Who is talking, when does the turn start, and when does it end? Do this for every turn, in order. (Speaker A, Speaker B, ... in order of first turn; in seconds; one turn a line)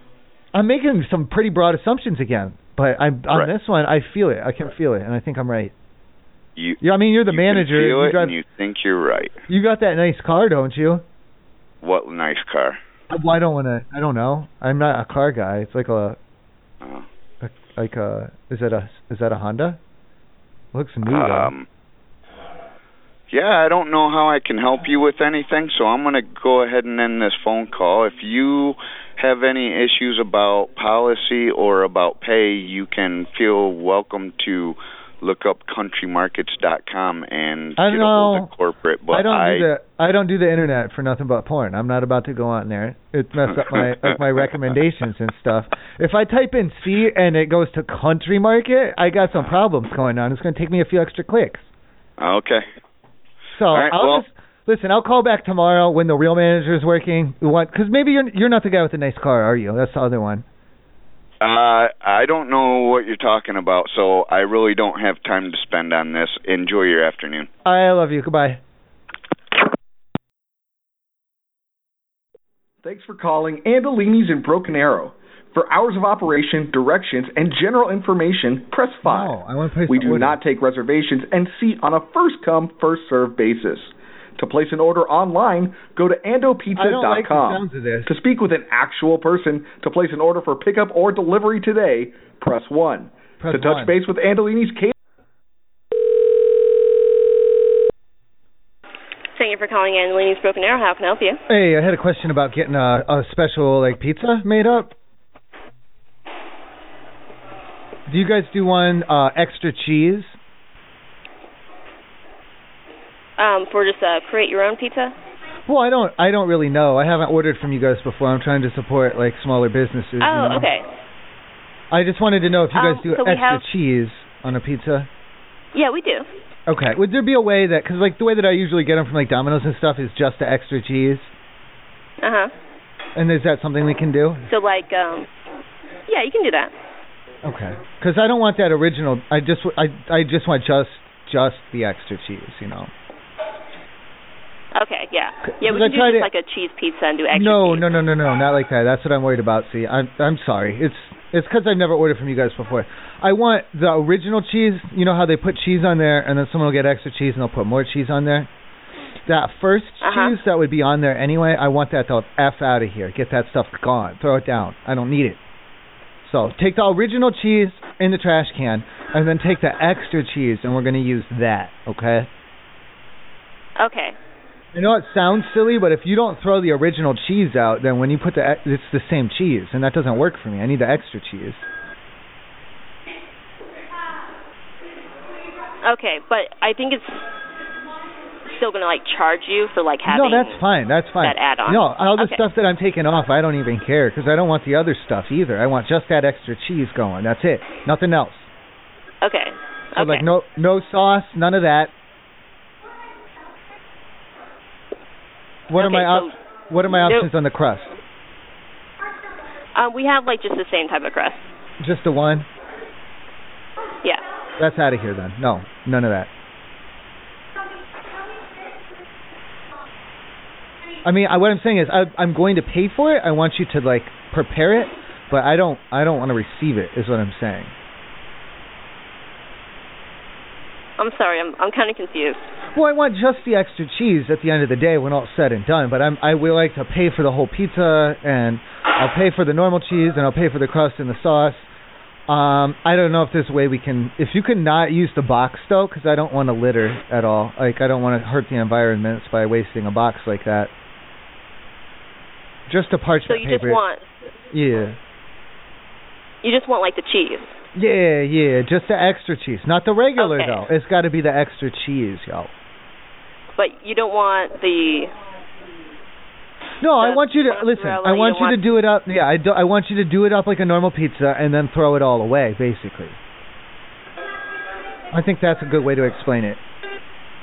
Speaker A: 0.5-5.7
Speaker B: 6.5-9.4
Speaker A: 6.8-8.3
Speaker A: 9.5-11.0
Speaker B: 11.8-12.8
Speaker A: 13.1-16.2
Speaker A: 17.4-19.8
Speaker A: 20.7-21.5
Speaker B: 21.1-21.7
Speaker B: 23.3-39.7
Speaker A: 37.8-38.5
Speaker A: 39.1-51.7
Speaker B: 52.2-52.6
Speaker A: 53.5-60.4
Speaker B: 53.7-54.2
Speaker B: 61.4-67.5
Speaker A: 67.6-68.6
Speaker C: 72.8-79.4
Speaker A: 79.0-80.4
Speaker C: 79.9-94.9
Speaker A: 86.8-88.1
Speaker A: 93.4-93.9
Speaker D: 99.4-101.4
Speaker A: 101.5-104.9
Speaker A: 108.1-110.3
Speaker D: 113.4-115.1
Speaker A: 115.7-120.7
Speaker D: 120.2-120.8
Speaker A: 121.9-125.1
Speaker D: 122.7-123.6
Speaker D: 125.7-126.3
Speaker A: 126.7-131.3
Speaker D: 132.2-132.5
Speaker A: 133.2-134.5
Speaker D: 134.5-135.3
Speaker D: 136.1-136.7
Speaker A: 137.4-142.9
Speaker D: 144.7-147.9
Speaker A: 145.5-146.3
Speaker A: 147.3-158.5
Speaker A: 159.2-165.4
Speaker D: 160.0-160.3
Speaker A: 166.2-172.3
Speaker D: 173.8-174.2
Speaker A: 174.7-181.7
Speaker D: 185.8-187.2
Speaker D: 188.5-190.6
Speaker A: 190.1-198.5
Speaker D: 191.2-192.4
Speaker D: 199.2-200.2
Speaker A: 199.9-201.9
Speaker A: 205.7-207.9
Speaker D: 205.8-206.3
Speaker D: 206.9-207.3
Speaker D: 209.8-211.4
Speaker A: 211.8-212.5
Speaker A: 214.6-216.3
Speaker A: 221.0-227.7
Speaker D: 231.0-232.4
Speaker A: 232.7-241.7
Speaker A: 242.3-250.7
Speaker A: 252.7-253.8
Speaker D: 253.3-254.0
Speaker A: 254.5-255.0
Speaker D: 256.4-257.5
Speaker A: 257.7-262.5
Speaker D: 260.1-260.7
Speaker D: 263.6-265.1
Speaker A: 266.8-273.2
Speaker D: 267.0-268.6
Speaker A: 275.1-276.6